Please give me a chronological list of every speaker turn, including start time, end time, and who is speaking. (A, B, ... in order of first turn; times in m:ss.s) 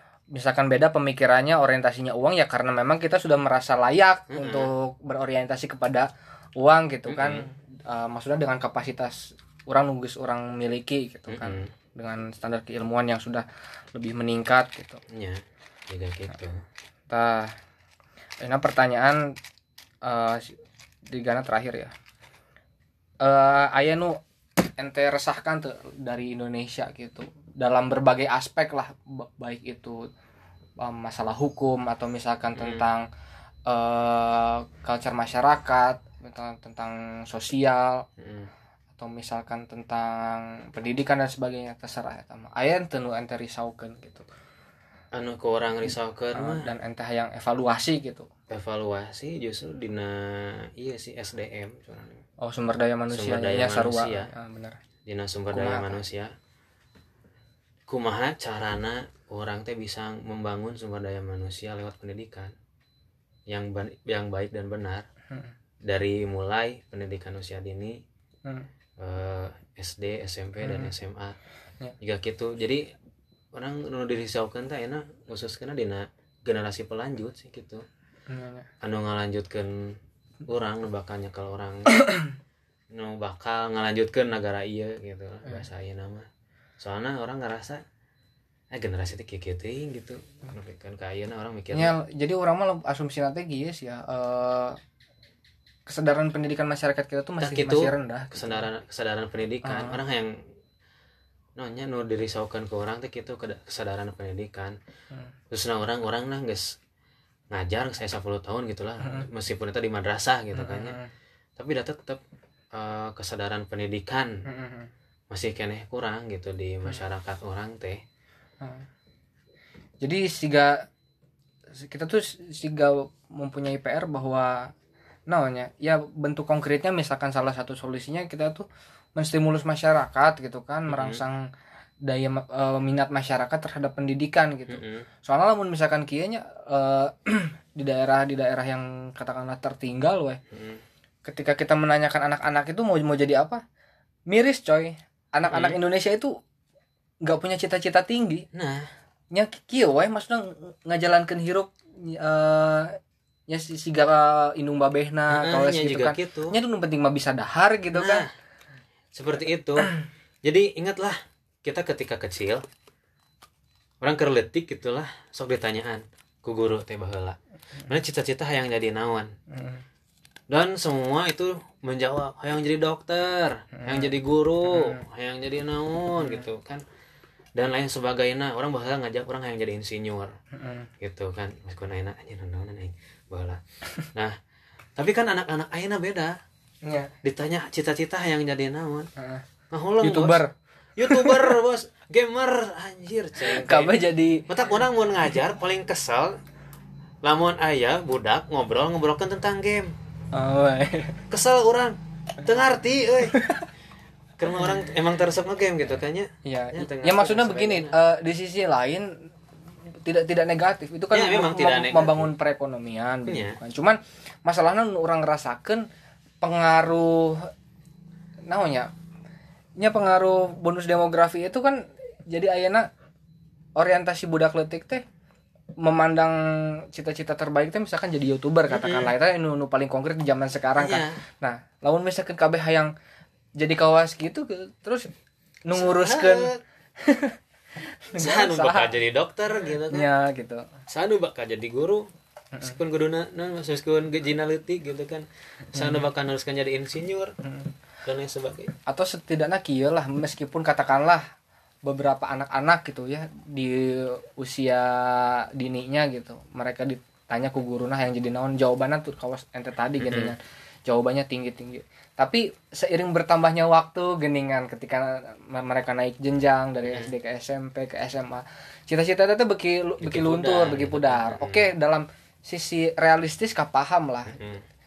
0:00.3-0:15.0 A
0:04.3-0:04.7 B
0:07.1-0:07.4 B
0:11.3-0:11.7 B
0:15.1-0:16.6 B
0:17.1-0:17.6 A
0:18.4-0:19.4 A
0:20.0-0:20.6 A
0:21.1-0:21.9 A
0:23.2-0:24.2 A
0:24.8-0:30.1 A
0:30.8-0:33.0 A
0:32.6-0:32.8 B
0:33.6-0:38.0 A
0:38.2-0:38.5 B
0:39.0-0:44.3 A
0:45.1-0:46.6 B
0:46.3-0:48.3 A
0:48.5-0:52.2 B
0:52.4-0:54.8 A
0:53.1-0:54.3 B
0:55.0-0:56.3 B
0:55.5-0:56.0 A
0:57.9-1:02.5 B
1:03.5-1:05.0 B
1:05.8-1:08.0 B
1:09.0-1:11.4 B
1:10.6-1:10.9 A
1:12.0-1:12.9 B
1:13.5-1:17.8 B
1:18.3-1:18.7 A
1:18.8-1:22.0 B
1:22.9-1:26.3 B
1:26.8-1:27.8 B
1:28.7-1:31.9 B
1:31.7-1:34.8 A
1:35.8-1:38.6 A
1:37.4-1:40.4 B
1:39.6-1:40.0 A
1:41.6-1:44.8 B
1:45.5-1:46.7 B
1:47.5-1:51.0 B
1:50.6-1:51.1 A
1:51.6-1:52.2 B
1:52.7-1:54.4 B
1:54.4-1:54.9 A
1:55.3-1:58.0 B
1:58.6-1:58.8 A
2:00.0-2:00.9 A
2:01.7-2:04.7 A
2:05.3-2:11.4 A
2:10.9-2:11.2 B
2:12.0-2:20.4 A
2:14.7-2:15.1 B
2:20.5-2:20.8 B
2:21.2-2:23.6 A
2:24.3-2:26.4 A
2:25.5-2:25.8 B
2:27.2-2:28.4 A
2:28.5-2:28.9 B
2:29.3-2:33.0 A
2:33.5-2:38.2 A
2:35.3-2:36.6 B
2:37.9-2:38.3 B
2:39.1-2:42.6 B
2:44.0-2:49.3 B
2:49.5-2:49.8 A
2:50.5-2:56.8 B
2:53.8-2:54.1 A
2:54.7-2:55.0 A
2:57.5-3:00.4 B
3:00.6-3:00.9 A
3:01.0-3:03.6 B
3:05.0-3:06.4 B
3:06.8-3:07.1 A
3:07.2-3:09.1 B
3:09.2-3:09.4 A
3:09.7-3:10.4 B
3:10.0-3:10.5 A
3:11.0-3:16.4 B
3:11.1-3:11.5 A
3:13.4-3:14.5 A
3:17.2-3:19.9 B
3:20.3-3:21.2 A
3:21.3-3:23.4 B
3:23.3-3:23.6 A
3:24.4-3:27.9 B
3:26.4-3:29.3 A
3:30.0-3:35.9 A
3:31.1-3:32.3 B
3:33.3-3:33.6 B
3:36.4-3:37.5 A
3:38.4-3:38.9 A
3:39.8-3:42.9 A
3:43.8-3:45.0 A
3:45.8-3:52.9 A
3:48.7-3:49.1 B
3:50.8-3:51.2 B
3:53.6-3:55.1 A
3:55.6-3:57.4 A
3:55.7-3:56.6 B
3:58.0-3:58.9 A
3:58.2-4:00.1 B
3:59.9-4:00.7 A
4:00.9-4:02.1 B
4:02.6-4:07.3 B
4:05.8-4:06.0 A
4:07.4-4:07.7 A
4:08.0-4:08.7 B
4:08.9-4:11.3 A
4:11.8-4:34.4 A
4:20.0-4:20.3 B
4:26.8-4:27.1 B
4:30.0-4:31.7 B
4:34.3-4:34.6 B